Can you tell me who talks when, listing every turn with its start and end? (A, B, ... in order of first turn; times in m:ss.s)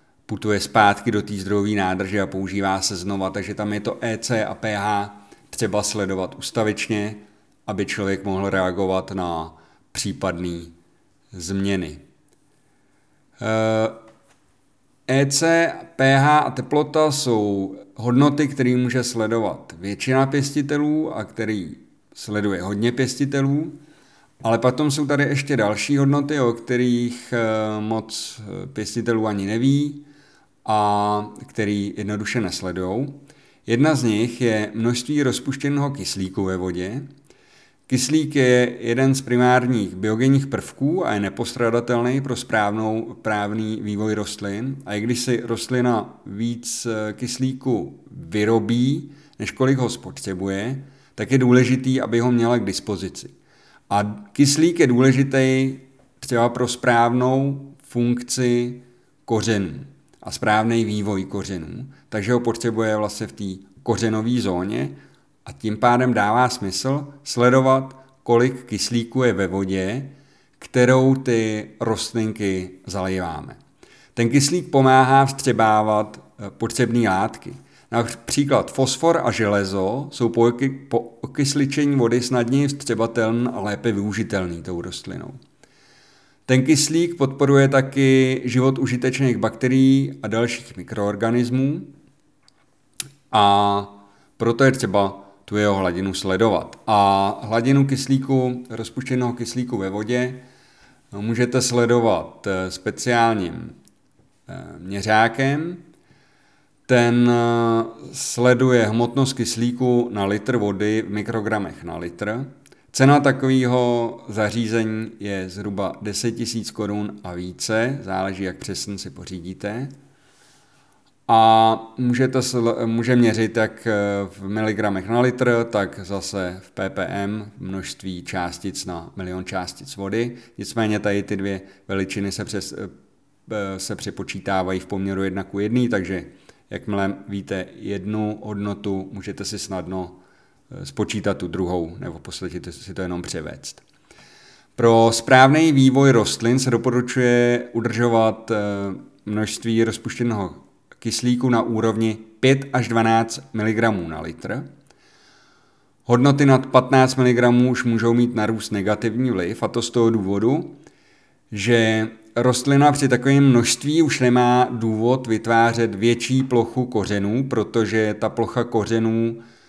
0:00.3-0:10.7 A
0:11.3-0:12.0 A
0:13.4-0:14.0 A
0:15.1-0:23.8 A
0:24.4-0:30.1 A
0:30.6-0:37.1 A
0:37.9-0:53.3 A
0:53.9-1:13.6 A
1:14.2-1:25.4 A
1:26.5-1:31.9 A
1:33.3-1:40.4 A
1:41.1-1:43.8 A
1:44.5-1:45.8 A
1:46.9-1:59.9 A
2:01.3-2:12.9 A
2:13.5-2:20.2 A
2:20.7-2:23.8 A
2:24.8-2:34.7 A
2:36.1-2:40.8 A
2:41.5-2:49.4 A